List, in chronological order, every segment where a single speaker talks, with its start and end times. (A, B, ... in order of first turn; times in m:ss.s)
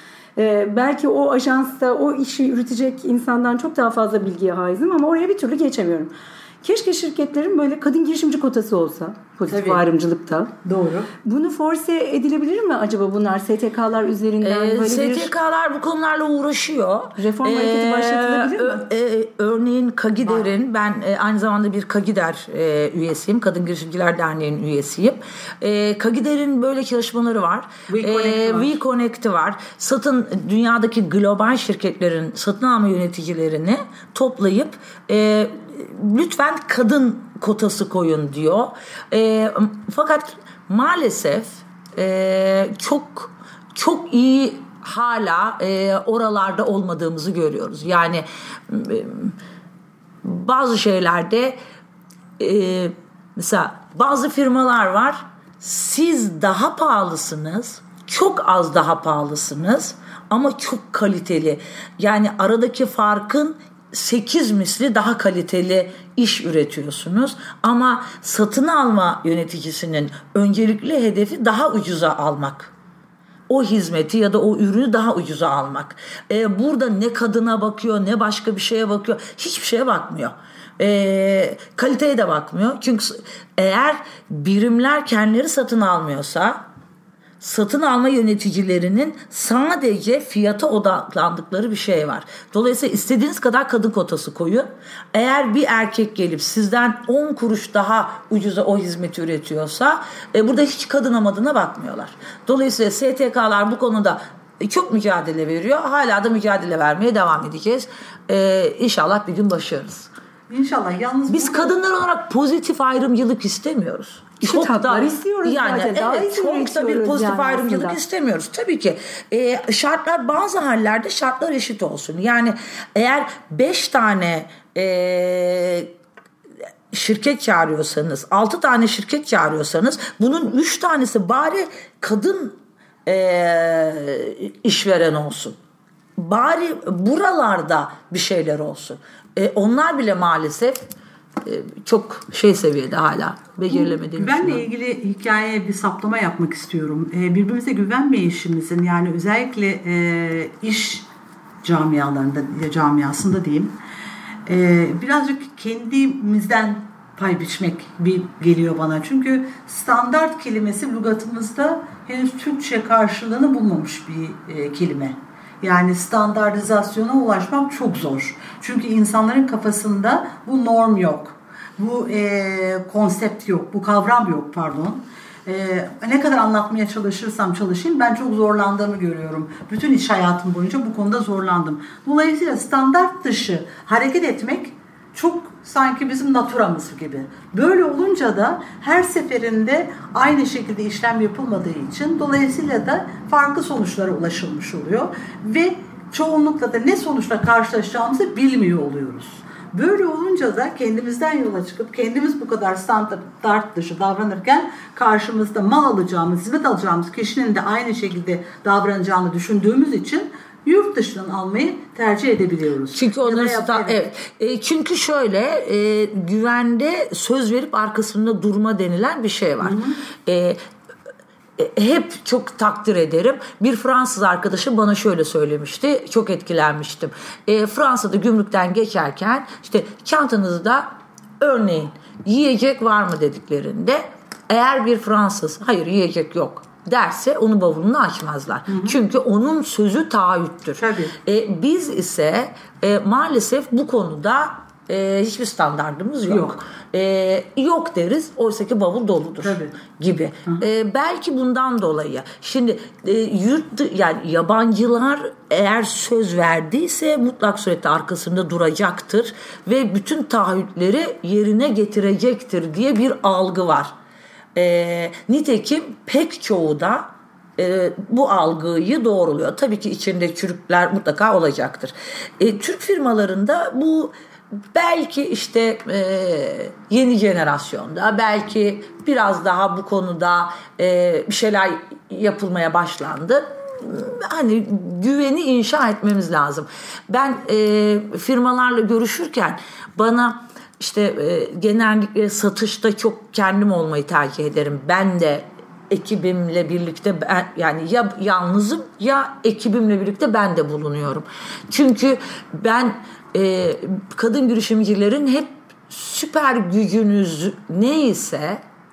0:00.4-0:10.5 A
0:09.5-0:09.8 B
0:10.6-0:11.1 B
0:11.2-0:15.3 A
0:14.4-0:49.4 C
0:17.2-0:18.8 A
0:20.2-0:20.5 B
0:27.9-0:28.8 B
0:50.2-0:51.6 C
0:52.4-1:12.7 C
1:13.5-1:26.6 C
1:27.4-1:50.1 C
1:50.5-1:51.7 B
1:51.3-2:05.9 C
1:54.4-1:58.0 A
2:06.9-2:15.6 C
2:16.2-2:20.8 C
2:21.4-2:24.6 C
2:23.7-2:31.1 B
2:31.6-2:33.7 B
2:34.5-3:34.0 B
3:32.9-3:40.6 C
3:39.6-3:40.0 B
3:41.6-3:50.9 C
3:51.4-4:23.9 C
3:58.7-3:59.0 B
4:00.8-4:01.2 B
4:06.3-4:06.6 B
4:09.4-4:09.8 B
4:24.6-4:34.1 C
4:34.7-5:08.6 C